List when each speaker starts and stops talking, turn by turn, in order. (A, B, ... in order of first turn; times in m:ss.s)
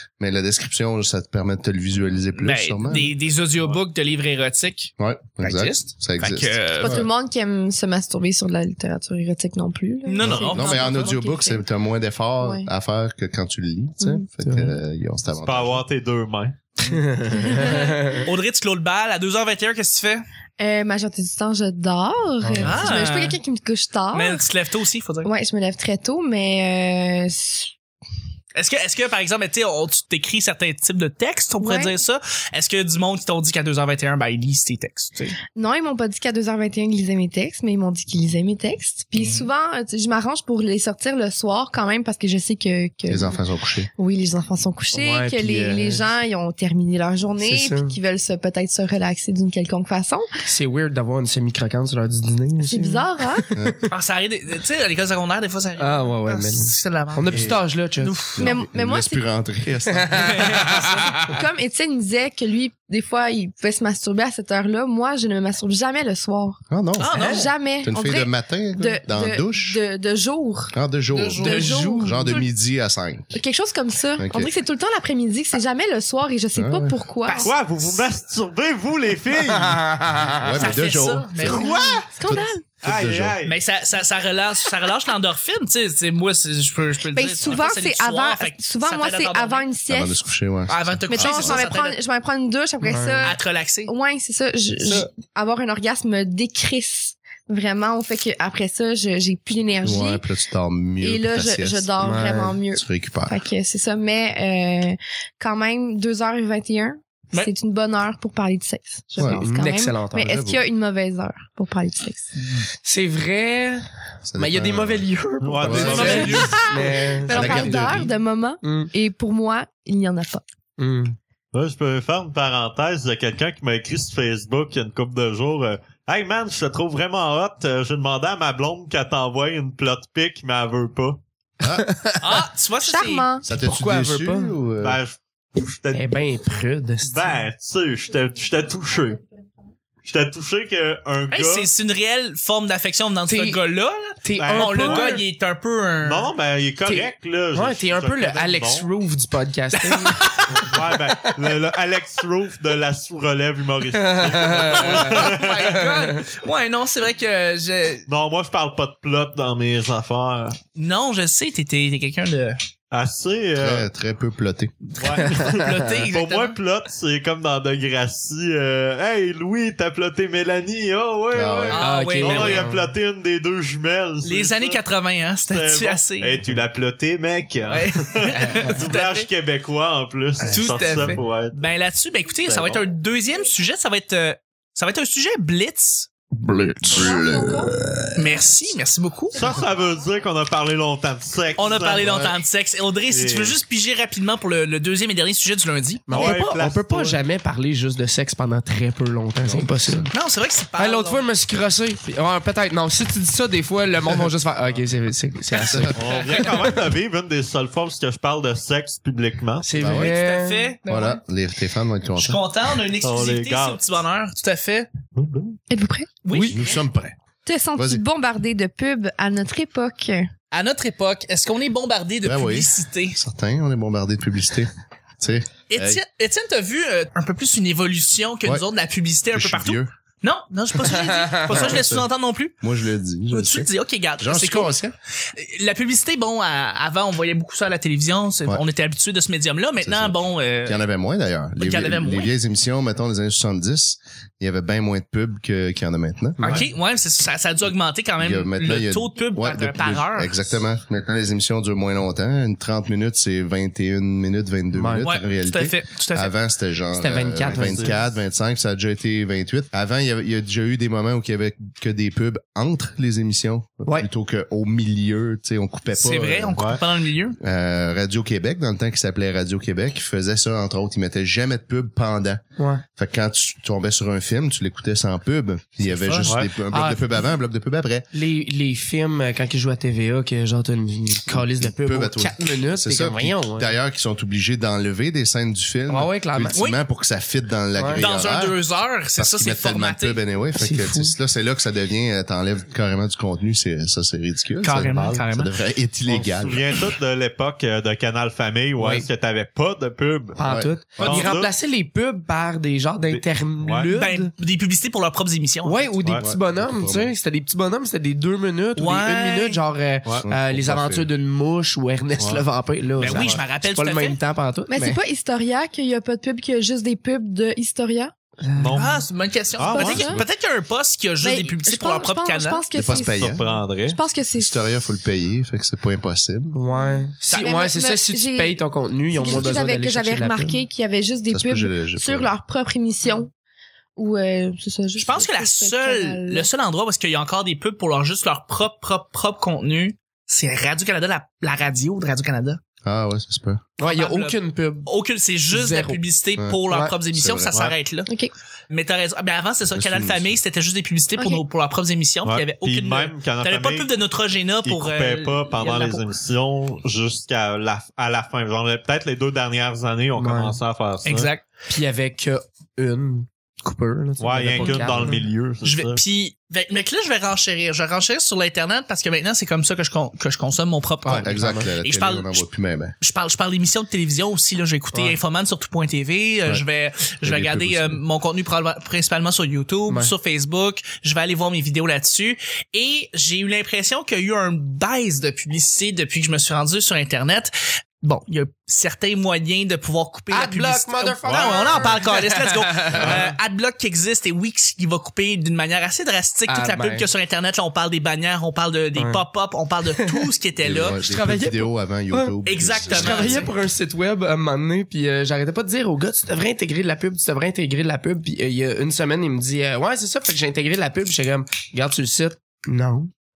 0:00.2-0:03.1 A
0:02.4-0:07.0 B
0:05.0-0:07.1 A
0:06.8-0:11.6 C
0:10.0-0:11.1 B
0:10.2-0:15.8 A
0:12.4-0:12.7 C
0:14.0-0:14.3 C
0:14.5-0:14.8 D
0:15.4-0:16.6 E
0:16.8-0:18.3 D
0:17.4-0:18.0 C
0:18.2-0:20.2 B
0:20.6-0:24.4 C
0:22.4-0:22.9 D
0:22.6-0:23.4 B
0:24.1-0:25.3 B
0:25.2-0:27.7 C
0:28.6-0:35.4 B
0:31.6-0:32.0 C
0:35.6-0:43.4 C
0:39.2-0:39.5 B
0:43.1-0:43.9 A
0:44.0-0:50.3 C
0:44.9-0:46.0 D
0:47.4-0:48.0 D
0:50.4-0:53.8 D
0:52.6-0:53.5 C
0:53.9-0:58.5 B
0:55.8-0:58.3 D
0:58.3-0:59.2 C
0:58.4-1:00.7 A
0:59.9-1:01.4 D
1:00.2-1:00.9 B
1:00.5-1:10.8 C
1:06.7-1:07.2 A
1:07.0-1:07.5 B
1:07.2-1:07.5 D
1:07.8-1:09.8 A
1:10.7-1:13.4 A
1:11.1-1:11.8 B
1:11.4-1:12.4 D
1:11.4-1:12.5 C
1:13.3-1:17.5 C
1:14.2-1:14.5 A
1:16.6-1:17.0 A
1:17.2-1:17.6 B
1:17.4-1:20.0 E
1:19.5-1:20.6 D
1:20.4-1:23.4 A
1:20.5-1:22.0 B
1:21.4-1:22.6 C
1:22.8-1:23.6 E
1:23.4-1:29.7 B
1:27.1-1:30.2 C
1:29.9-1:31.7 A
1:30.7-1:32.0 B
1:31.1-1:40.2 C
1:32.8-1:33.3 D
1:33.2-1:33.9 B
1:39.8-1:42.0 A
1:41.0-1:52.3 C
1:42.0-1:42.6 D
1:42.7-1:43.4 A
1:49.2-1:49.5 A
1:49.2-1:50.3 D
1:50.2-1:50.6 A
1:52.8-1:58.1 D
1:54.3-1:55.0 A
1:55.4-1:56.8 E
1:55.6-1:56.5 A
1:55.7-1:56.9 B
1:56.9-2:00.4 C
1:57.3-1:58.1 A
1:58.6-1:58.9 D
2:00.8-2:01.2 D
2:01.5-2:11.2 E
2:11.6-2:11.9 A
2:11.6-2:12.5 D
2:12.2-2:13.3 B
2:12.8-2:13.5 C
2:13.4-2:15.0 A
2:13.5-2:14.6 D
2:14.8-2:16.2 E
2:15.9-2:17.3 D
2:17.0-2:19.2 E
2:20.0-2:21.7 E
2:21.3-2:26.3 B
2:23.3-2:23.6 D
2:24.2-2:25.2 D
2:24.4-2:25.2 E
2:26.0-2:28.9 E
2:26.9-2:31.3 D
2:29.7-2:30.7 B
2:30.5-2:35.6 E
2:33.9-2:36.3 D
2:34.7-2:38.1 B
2:38.1-2:40.6 E
2:40.8-2:42.6 B
2:42.9-2:43.9 E
2:43.6-2:44.7 A
2:44.9-2:46.6 B
2:45.0-2:54.8 E
2:51.3-2:51.8 A
2:51.7-2:52.7 B
2:51.8-2:52.9 D
2:54.2-2:56.4 B
2:55.5-3:01.6 E
2:57.7-2:59.3 B
2:58.4-2:58.7 D
3:00.5-3:06.1 B
3:02.5-3:02.9 E
3:06.4-3:07.3 D
3:06.8-3:08.0 A
3:06.9-3:07.7 C
3:08.2-3:09.4 B
3:09.3-3:12.3 E
3:11.6-3:16.5 B
3:12.0-3:12.3 A
3:13.1-3:13.6 E
3:16.1-3:20.1 D
3:16.1-3:17.2 E
3:19.4-3:20.1 A
3:20.1-3:21.3 B
3:20.8-3:26.8 D
3:25.7-3:26.0 A
3:26.0-3:29.7 E
3:29.6-3:30.8 D
3:29.8-3:30.1 A
3:29.8-3:31.2 B
3:30.9-3:32.4 A
3:32.2-3:34.9 B
3:33.0-3:33.8 E
3:35.2-3:35.6 E
3:35.7-3:36.1 C
3:36.2-3:36.7 B
3:36.3-3:36.6 D
3:36.5-3:37.2 A
3:37.5-3:40.3 C
3:37.8-3:38.0 A
3:40.5-3:43.2 B
3:42.2-3:44.7 A
3:45.2-3:46.0 A
3:45.7-3:52.6 B
3:49.3-3:49.9 A
3:50.8-3:51.8 D
3:51.5-3:52.1 A
3:52.6-3:54.9 A
3:53.3-3:54.8 B
3:55.3-4:00.8 B
3:59.8-4:06.4 A
4:01.6-4:02.3 B
4:06.4-4:06.7 D
4:06.4-4:10.5 B
4:08.2-4:26.7 A
4:14.7-4:15.1 D
4:15.0-4:16.3 B
4:17.0-4:18.0 D
4:17.5-4:18.0 E
4:25.9-4:27.4 B
4:27.4-4:38.1 A
4:32.6-4:32.8 D
4:35.9-4:36.3 B
4:36.7-4:37.2 D
4:38.1-4:43.7 D
4:41.3-4:48.6 A
4:45.9-4:46.6 D
4:46.5-4:46.8 B
4:47.8-4:48.0 D
4:48.0-4:50.2 B
4:49.2-4:56.7 A
4:50.6-4:51.2 D
4:54.6-4:55.5 B
4:54.9-4:55.2 E
4:56.1-5:00.4 E
4:58.8-4:59.1 D
5:00.4-5:04.3 D
5:00.4-5:01.3 A
5:01.0-5:01.5 E
5:03.1-5:03.9 E
5:03.9-5:05.9 B
5:05.6-5:15.0 D
5:06.2-5:07.1 A
5:08.8-5:09.6 B
5:10.2-5:11.1 A
5:12.2-5:12.4 E
5:13.0-5:14.2 B
5:13.0-5:13.4 E
5:14.7-5:18.1 C
5:18.4-5:18.9 D
5:18.6-5:19.0 E
5:18.7-5:22.6 B
5:19.6-5:20.3 E
5:19.7-5:20.2 C
5:21.2-5:24.5 C
5:22.7-5:23.4 A
5:22.9-5:24.0 E
5:24.4-5:26.6 A
5:26.5-5:30.6 D
5:26.7-5:33.3 C
5:27.3-5:27.6 B
5:29.3-5:29.6 A
5:31.3-5:32.3 A
5:34.0-5:36.5 C
5:35.0-5:42.6 B
5:42.8-5:43.6 A
5:43.8-5:44.9 D
5:43.8-5:48.1 B
5:45.5-5:46.0 D
5:46.7-5:47.0 D
5:47.1-5:47.6 A
5:48.1-5:48.3 C
5:48.7-5:56.0 B
5:49.8-5:50.4 A
5:51.2-5:51.4 C
5:52.3-5:53.9 E
5:54.6-6:01.3 E
6:00.2-6:00.6 D
6:01.0-6:01.4 B
6:01.7-6:05.2 D
6:04.2-6:06.0 E
6:04.6-6:05.0 B
6:05.6-6:12.5 B
6:11.0-6:11.7 D
6:11.1-6:13.0 A
6:13.0-6:41.0 B
6:14.9-6:15.2 D
6:17.2-6:18.0 A
6:19.9-6:20.1 D
6:30.3-6:33.2 D
6:31.3-6:31.6 E
6:32.9-6:33.3 E
6:36.5-6:37.1 D
6:39.0-6:39.2 D
6:40.0-6:40.3 D
6:40.6-6:43.5 A
6:40.9-6:42.4 D
6:42.4-6:43.5 B
6:42.9-6:53.1 D